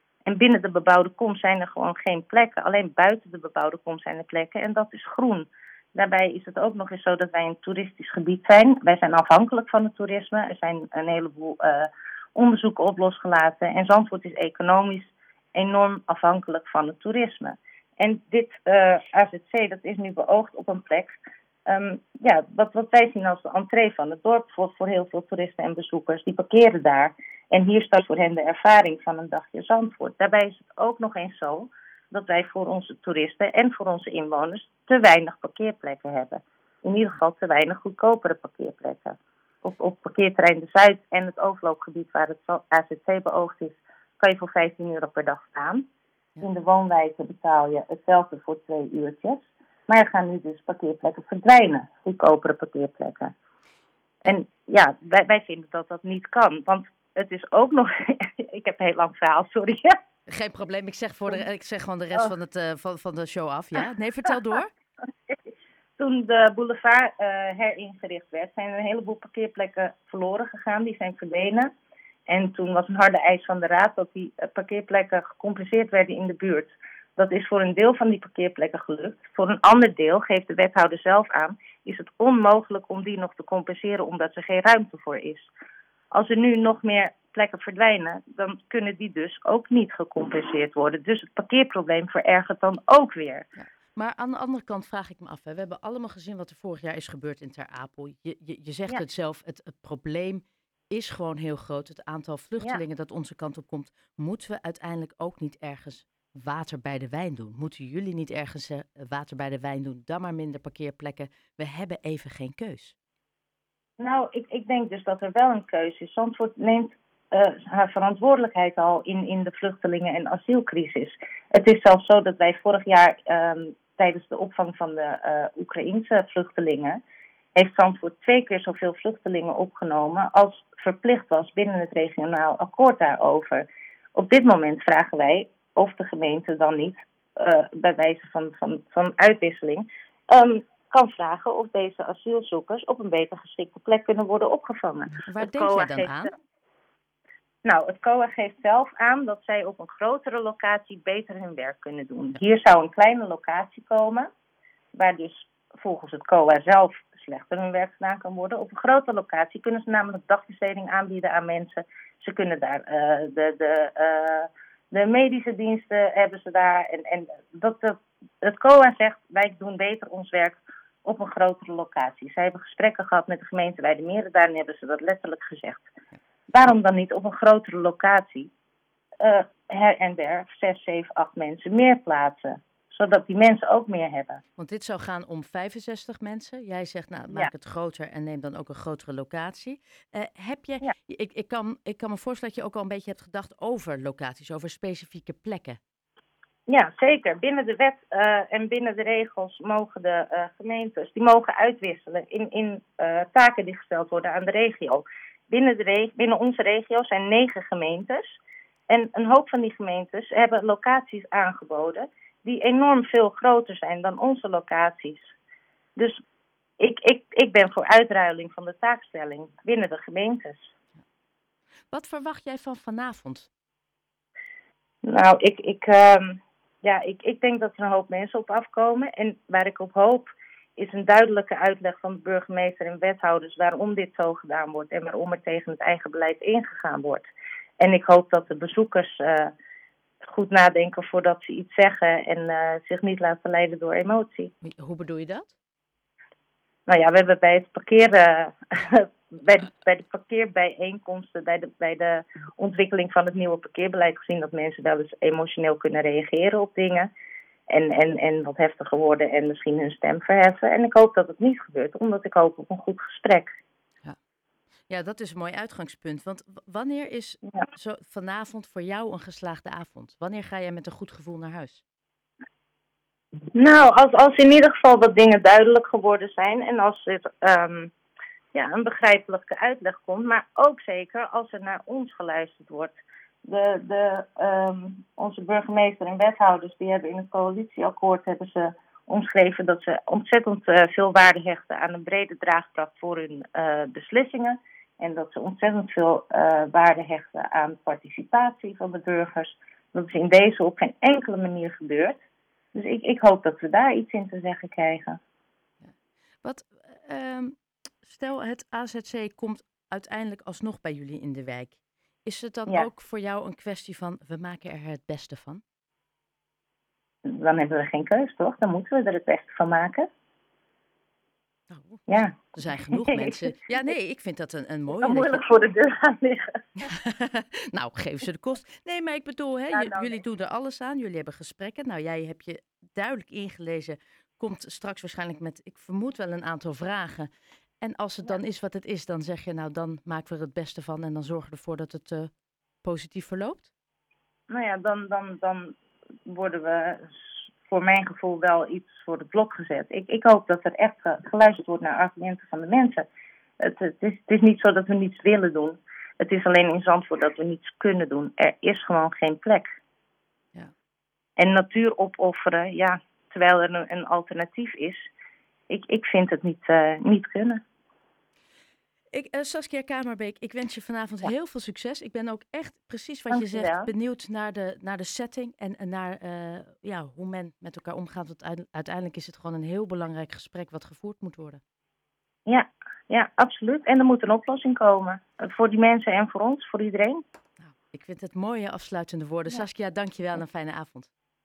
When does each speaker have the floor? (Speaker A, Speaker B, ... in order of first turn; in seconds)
Speaker A: 0.2-45.9, 46.4-53.3, 54.2-59.9, 66.0-71.7, 72.3-85.5, 86.1-93.5, 114.0-127.0, 127.5-146.3, 147.6-154.3, 154.9-175.9, 176.5-178.5, 179.2-184.4, 196.7-208.4, 208.9-215.3, 216.8-220.7, 225.0-237.3, 237.8-239.5, 240.3-244.5, 246.9-257.1, 257.7-263.5, 273.5-277.9, 278.5-302.2, 302.7-305.2, 317.3-320.1, 322.1-322.4, 322.9-323.5, 325.0-326.6, 329.7-330.2, 344.5-353.1, 353.6-359.7, 361.4-365.1, 365.7-367.6, 373.3-373.9, 382.5-387.2
Speaker B: 60.3-64.7, 93.6-113.0, 145.2-146.3, 184.6-195.8, 221.9-223.5, 244.6-245.5, 264.9-271.8, 305.8-315.6, 321.7-325.4, 326.8-337.3, 337.8-342.3, 342.8-343.7, 369.1-381.6, 387.6-391.1